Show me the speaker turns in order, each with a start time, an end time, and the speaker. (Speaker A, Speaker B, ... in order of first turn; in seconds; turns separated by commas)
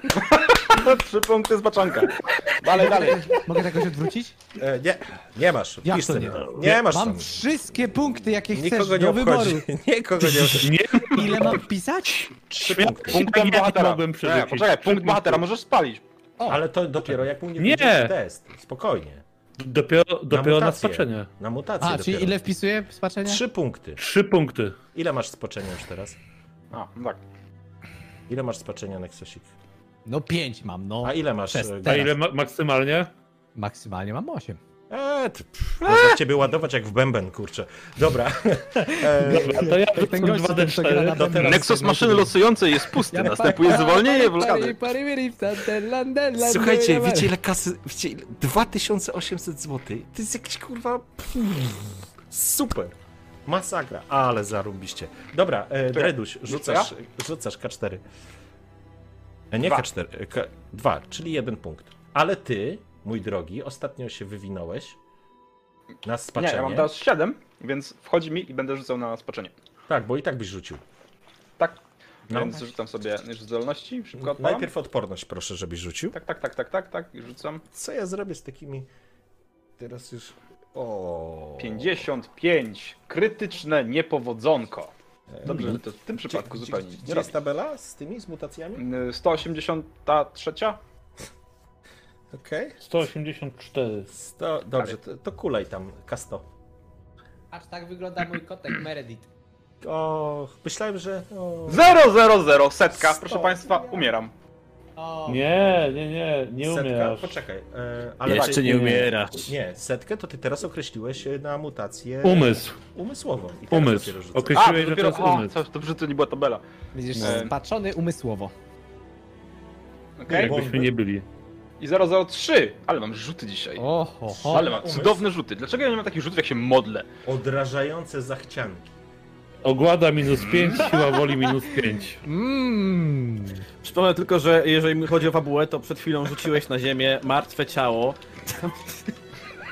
Speaker A: 0.1-3.5, Speaker B: 2.7-4.4, Speaker C: 4.6-7.4, Speaker B: 5.8-9.7, Speaker C: 8.5-11.6, Speaker B: 10.2-12.3, Speaker D: 10.6-11.6, Speaker C: 12.5-13.2, Speaker A: 12.6-16.0, Speaker D: 12.7-15.4, Speaker C: 16.5-19.2, Speaker D: 17.6-18.1, Speaker D: 19.6-21.3, Speaker C: 20.3-22.4, Speaker B: 21.8-23.4, Speaker C: 23.3-24.0, Speaker D: 24.0-24.8, Speaker C: 24.9-26.2, Speaker A: 26.7-27.2, Speaker C: 28.3-29.5, Speaker B: 30.1-32.1, Speaker C: 31.0-32.1, Speaker D: 31.9-33.1, Speaker B: 33.5-34.6, Speaker C: 34.9-39.8, Speaker B: 39.0-42.4, Speaker D: 39.2-41.5, Speaker C: 41.2-41.6, Speaker A: 41.4-44.9, Speaker B: 43.1-47.3, Speaker C: 43.2-43.8, Speaker C: 46.4-58.0, Speaker A: 55.9-56.9, Speaker C: 59.5-65.0, Speaker C: 66.0-66.9, Speaker A: 66.4-69.5, Speaker C: 69.9-70.8, Speaker A: 71.6-74.7, Speaker C: 72.3-72.6, Speaker C: 74.2-76.2, Speaker A: 76.1-77.6, Speaker C: 77.7-78.9, Speaker C: 79.8-82.1, Speaker A: 81.6-84.9, Speaker C: 85.3-88.8, Speaker A: 85.5-87.3, Speaker A: 88.8-90.8, Speaker C: 92.3-92.8, Speaker D: 92.8-94.1, Speaker C: 94.1-96.5, Speaker B: 97.5-99.3, Speaker C: 99.8-102.0, Speaker A: 101.7-104.3, Speaker C: 103.0-104.1, Speaker B: 105.0-105.5, Speaker D: 105.3-107.4, Speaker C: 106.6-114.7, Speaker E: 108.2-109.5, Speaker A: 108.3-108.6, Speaker D: 108.6-109.1, Speaker D: 112.2-112.8, Speaker D: 113.7-115.6, Speaker A: 114.5-117.5, Speaker B: 116.9-118.5, Speaker A: 120.2-120.6, Speaker C: 120.3-120.9, Speaker D: 120.3-121.3, Speaker A: 121.8-123.8, Speaker B: 123.8-124.8, Speaker C: 124.4-125.2, Speaker A: 124.5-127.1, Speaker C: 127.2-128.8, Speaker D: 129.6-132.2, Speaker A: 130.3-130.9, Speaker B: 130.9-131.6, Speaker B: 132.2-133.6, Speaker E: 133.8-139.2